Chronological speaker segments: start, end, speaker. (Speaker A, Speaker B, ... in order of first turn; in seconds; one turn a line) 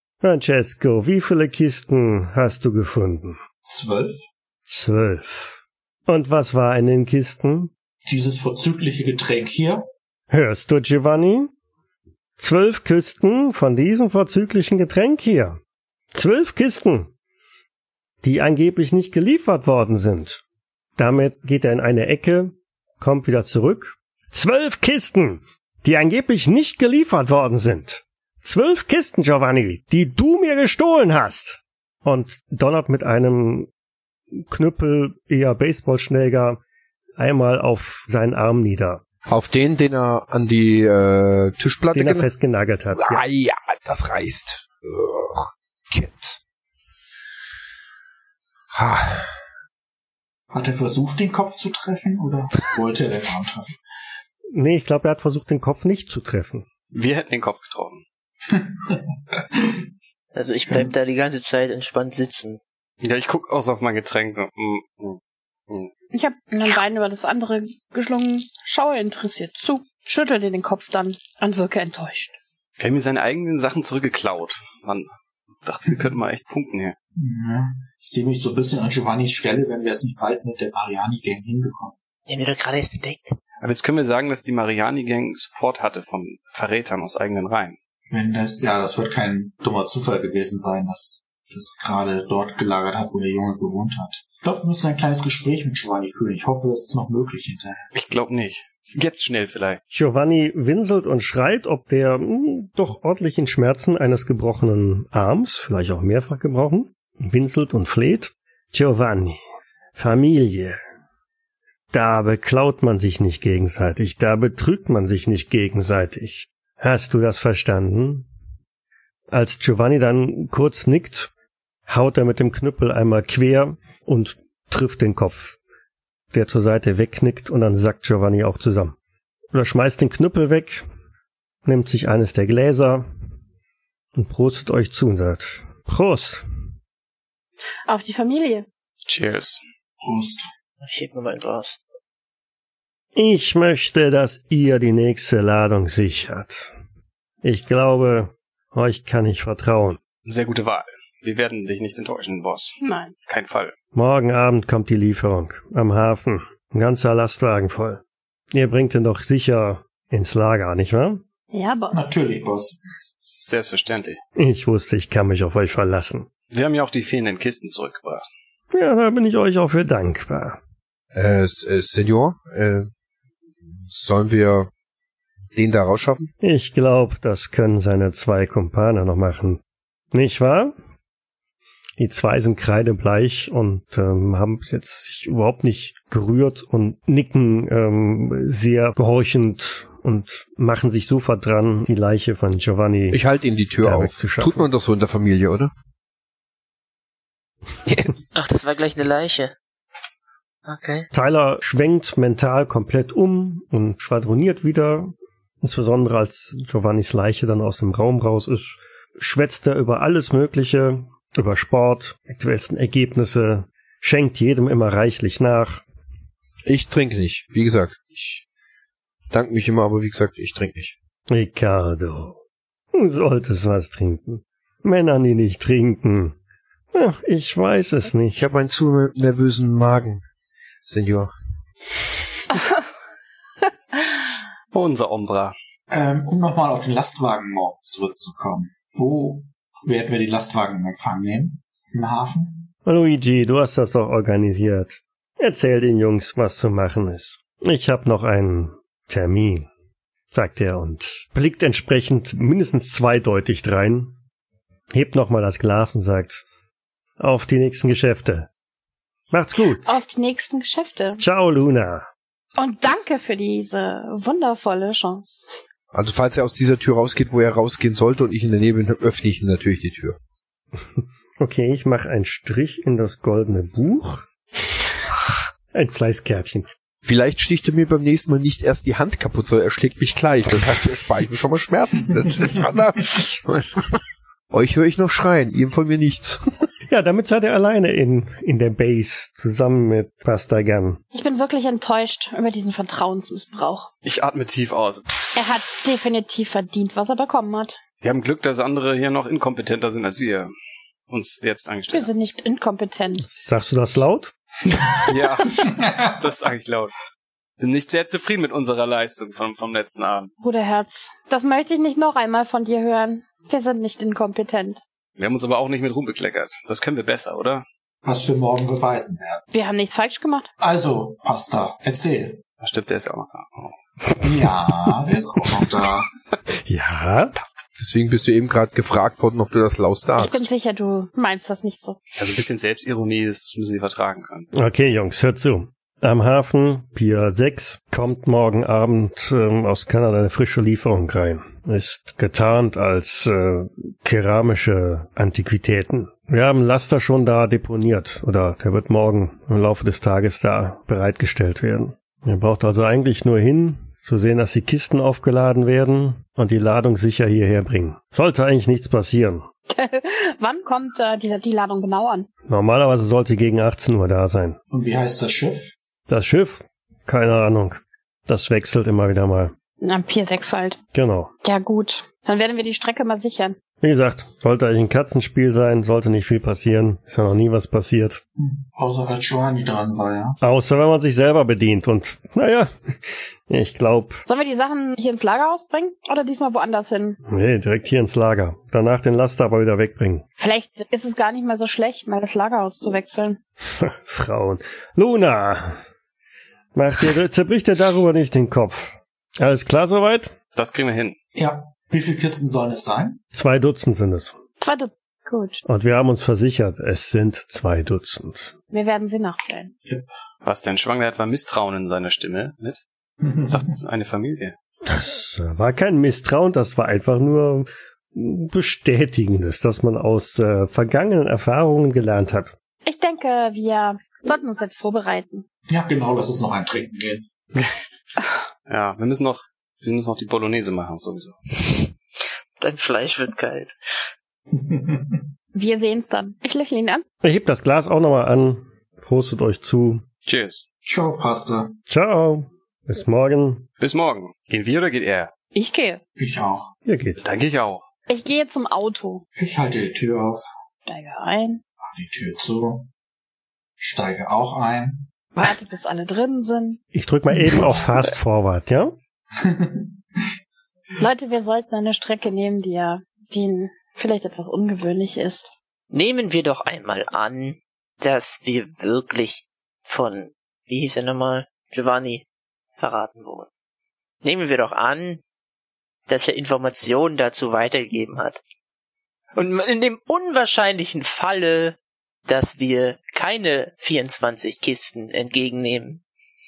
Speaker A: 0.2-3.4
Speaker B: 3.6-4.2
Speaker A: 4.7-7.7
Speaker B: 8.1-9.8
Speaker A: 10.3-11.5
Speaker A: 12.4-15.6
Speaker A: 16.1-17.1
Speaker A: 18.2-20.4
Speaker A: 21.0-33.7
Speaker A: 34.3-36.6
Speaker A: 37.2-39.0
Speaker C: 39.3-42.3
Speaker A: 41.9-43.2
Speaker C: 43.0-46.4
Speaker C: 48.7-49.3
Speaker B: 50.5-53.8
Speaker A: 54.5-56.7
Speaker D: 56.9-58.0
Speaker B: 58.5-59.8
Speaker E: 60.3-62.6
Speaker B: 60.7-60.9
Speaker D: 63.0-65.9
Speaker F: 66.1-72.4
Speaker D: 72.8-75.1
Speaker D: 75.6-77.0
Speaker B: 77.2-81.9
Speaker E: 82.3-83.4
Speaker D: 83.6-87.8
Speaker B: 88.1-97.8
Speaker D: 97.9-99.8
Speaker A: 99.9-109.4
Speaker A: 110.0-110.8
Speaker A: 111.9-118.3
Speaker A: 119.3-121.3
Speaker A: 121.9-125.6
Speaker A: 126.3-129.0
Speaker A: 129.5-130.8
Speaker A: 131.7-133.1
Speaker A: 134.2-136.4
Speaker F: 137.9-138.7
Speaker D: 139.1-139.6
Speaker B: 140.0-140.5
Speaker E: 140.8-141.8
Speaker A: 143.2-146.7
Speaker A: 147.4-150.0
Speaker D: 150.2-153.7
Speaker F: 152.8-153.1
Speaker A: 153.9-161.2
Speaker F: 161.5-162.0
Speaker B: 161.9-162.8
Speaker D: 163.4-164.2
Speaker A: 164.4-166.3
Speaker D: 166.5-168.3
Speaker A: 168.7-170.6
Speaker C: 171.1-172.9
Speaker C: 173.8-174.7
Speaker C: 175.5-176.3
Speaker A: 176.4-179.6
Speaker A: 180.1-180.8
Speaker A: 182.0-193.2
Speaker C: 193.1-195.7
Speaker A: 193.8-194.7
Speaker C: 197.8-198.2
Speaker E: 198.3-199.6
Speaker E: 200.7-201.1
Speaker A: 201.1-215.8
Speaker C: 216.7-218.4
Speaker C: 219.3-221.0
Speaker A: 221.3-222.4
Speaker A: 222.9-226.4
Speaker A: 226.9-228.4
Speaker C: 228.3-230.2
Speaker C: 230.8-231.3
Speaker F: 232.5-232.8
Speaker D: 234.7-235.5
Speaker B: 235.9-242.7
Speaker A: 242.9-249.7
Speaker A: 250.3-254.2
Speaker A: 254.9-256.4
Speaker A: 257.2-258.5
Speaker A: 259.3-260.0
Speaker F: 259.8-261.2
Speaker A: 261.2-262.1
Speaker F: 262.6-265.6
Speaker C: 265.9-270.2
Speaker A: 271.4-274.2
Speaker A: 275.7-276.7
Speaker C: 277.0-284.0
Speaker C: 284.5-286.4
Speaker A: 286.9-291.0
Speaker F: 291.1-293.9
Speaker D: 294.1-295.8
Speaker F: 295.4-297.8
Speaker D: 298.0-300.5
Speaker D: 301.1-302.1
Speaker F: 301.9-303.2
Speaker A: 303.2-304.3
Speaker D: 305.1-306.9
Speaker B: 305.5-306.1
Speaker D: 307.6-310.3
Speaker F: 310.4-314.8
Speaker D: 315.2-317.6
Speaker B: 318.1-319.4
Speaker F: 319.5-320.5
Speaker B: 320.6-322.4
Speaker D: 322.6-323.8
Speaker B: 324.2-326.1
Speaker A: 326.7-327.4
Speaker C: 327.8-330.5
Speaker F: 330.2-332.0
Speaker D: 332.1-334.5
Speaker A: 334.5-359.5
Speaker F: 359.7-362.3
Speaker A: 362.5-364.6
Speaker B: 364.7-365.7
Speaker A: 366.1-369.5
Speaker F: 369.8-370.8
Speaker A: 370.9-371.3
Speaker F: 371.4-373.6
Speaker A: 373.8-378.2
Speaker B: 378.4-380.4
Speaker A: 380.4-383.0
Speaker A: 383.5-384.2
Speaker F: 384.2-387.2
Speaker A: 387.3-390.2
Speaker F: 390.4-393.4
Speaker A: 393.8-395.8
Speaker A: 396.8-400.4
Speaker D: 400.6-401.2
Speaker B: 401.4-403.2
Speaker A: 403.3-404.4
Speaker F: 404.6-405.6
Speaker A: 405.6-408.5
Speaker F: 408.7-409.7
Speaker D: 410.4-412.8
Speaker B: 413.2-413.7
Speaker D: 413.5-414.6
Speaker A: 414.9-422.5
Speaker F: 422.9-425.4
Speaker B: 425.7-427.3
Speaker D: 428.7-431.4
Speaker E: 432.6-433.8
Speaker B: 434.5-435.2
Speaker F: 435.5-437.0
Speaker A: 437.2-440.1
Speaker D: 440.2-440.6
Speaker B: 440.9-441.7
Speaker A: 441.9-443.7
Speaker D: 443.8-445.3
Speaker F: 445.5-446.0
Speaker B: 446.2-446.7
Speaker A: 446.9-447.2
Speaker D: 447.2-447.9
Speaker F: 448.1-449.2
Speaker B: 449.4-450.4
Speaker F: 450.9-451.6
Speaker B: 451.8-452.9
Speaker B: 453.8-455.1
Speaker F: 455.4-456.8
Speaker A: 456.9-458.9
Speaker B: 459.4-460.2
Speaker F: 461.0-465.5
Speaker E: 465.9-472.3
Speaker E: 472.8-473.5
Speaker E: 474.2-475.2
Speaker E: 476.1-478.4
Speaker E: 479.4-486.0